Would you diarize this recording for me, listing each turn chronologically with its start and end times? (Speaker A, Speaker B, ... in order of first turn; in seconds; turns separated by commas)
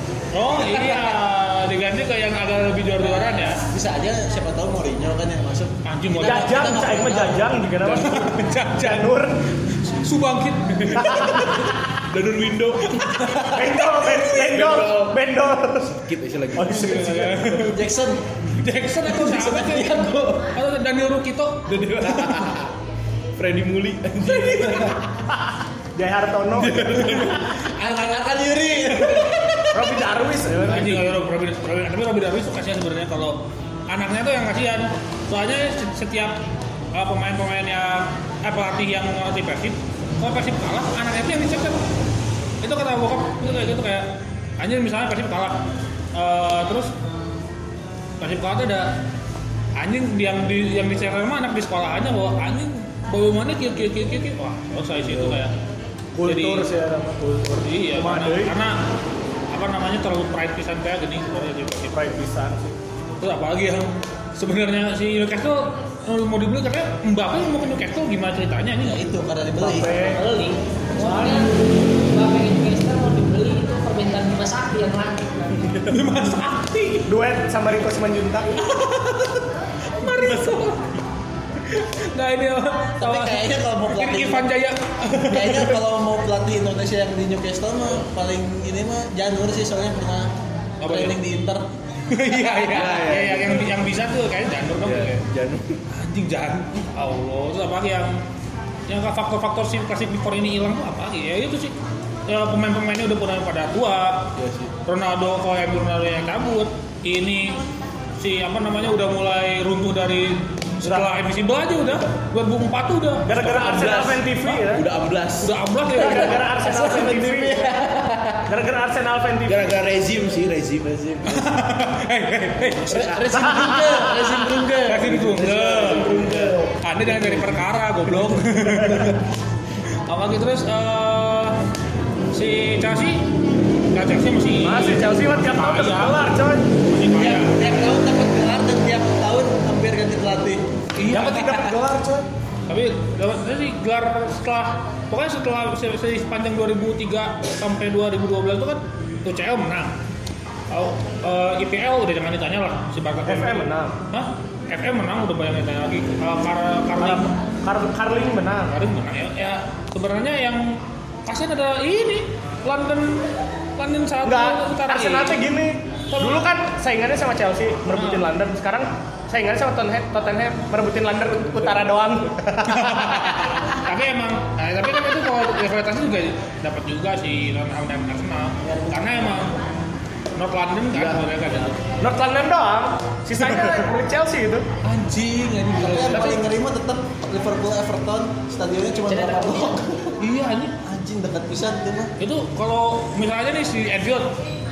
Speaker A: 0.3-3.6, Speaker B: 3.5-7.5, Speaker A: 5.8-7.0, Speaker C: 6.2-9.4, Speaker A: 7.8-9.2, Speaker A: 9.8-11.5, Speaker C: 11.0-11.4, Speaker D: 11.5-13.5, Speaker A: 13.0-13.4, Speaker C: 13.5-16.0, Speaker D: 14.3-15.2, Speaker D: 15.9-17.7, Speaker C: 16.6-17.4, Speaker A: 16.6-17.8, Speaker B: 17.6-18.2, Speaker A: 18.6-22.5, Speaker B: 19.0-20.5, Speaker D: 21.7-22.7, Speaker D: 23.4-24.9, Speaker C: 25.9-27.2, Speaker D: 26.8-27.5, Speaker B: 27.6-29.6, Speaker C: 29.7-31.1, Speaker A: 30.7-36.4, Speaker A: 36.9-41.8, Speaker A: 42.6-45.6, Speaker A: 46.1-46.9, Speaker A: 48.2-48.9, Speaker A: 49.8-55.5, Speaker D: 55.1-55.4, Speaker C: 56.1-58.5, Speaker A: 56.2-56.7, Speaker A: 57.6-58.8, Speaker A: 59.5-62.2, Speaker C: 61.9-62.8, Speaker A: 63.2-69.1, Speaker B: 68.8-70.0, Speaker C: 69.6-70.2, Speaker E: 70.0-75.7, Speaker D: 75.7-76.0, Speaker A: 75.9-77.1, Speaker C: 77.1-78.6, Speaker A: 78.8-79.1, Speaker A: 80.0-80.9, Speaker D: 80.3-80.7, Speaker A: 81.7-85.8, Speaker B: 83.0-84.5, Speaker B: 85.2-90.3, Speaker A: 90.8-91.2, Speaker B: 90.8-91.7, Speaker A: 92.1-95.2, Speaker D: 92.6-93.7, Speaker D: 94.8-95.8, Speaker A: 95.9-98.2, Speaker A: 98.9-101.7, Speaker A: 102.3-104.3, Speaker D: 104.4-104.7, Speaker A: 104.9-107.6, Speaker A: 108.2-113.7, Speaker C: 110.8-111.1, Speaker C: 113.3-114.9, Speaker D: 113.4-115.5, Speaker A: 115.4-116.5, Speaker C: 115.9-117.7, Speaker B: 116.0-118.5, Speaker C: 118.5-119.8, Speaker D: 119.5-121.6, Speaker A: 121.3-123.1, Speaker D: 122.9-126.0, Speaker B: 122.9-125.1, Speaker C: 123.3-124.3, Speaker A: 124.9-129.2, Speaker B: 125.8-126.4, Speaker C: 125.9-126.6, Speaker A: 130.1-131.6, Speaker A: 132.3-133.3, Speaker A: 133.9-136.3, Speaker C: 134.6-136.8, Speaker A: 136.8-137.7, Speaker B: 137.2-140.7, Speaker A: 140.9-141.8, Speaker C: 141.1-142.2, Speaker A: 142.7-149.9, Speaker A: 150.7-157.3, Speaker C: 153.3-153.9, Speaker C: 157.0-158.7, Speaker A: 158.7-165.4, Speaker C: 164.2-173.4, Speaker A: 166.1-166.4, Speaker A: 167.9-168.3, Speaker A: 172.6-179.6, Speaker B: 178.6-179.2, Speaker A: 180.4-181.8, Speaker D: 180.9-181.2, Speaker C: 182.0-184.7, Speaker A: 184.8-186.4, Speaker B: 185.8-190.2, Speaker E: 189.1-189.8, Speaker A: 190.2-190.7, Speaker B: 190.8-192.1, Speaker A: 192.2-194.4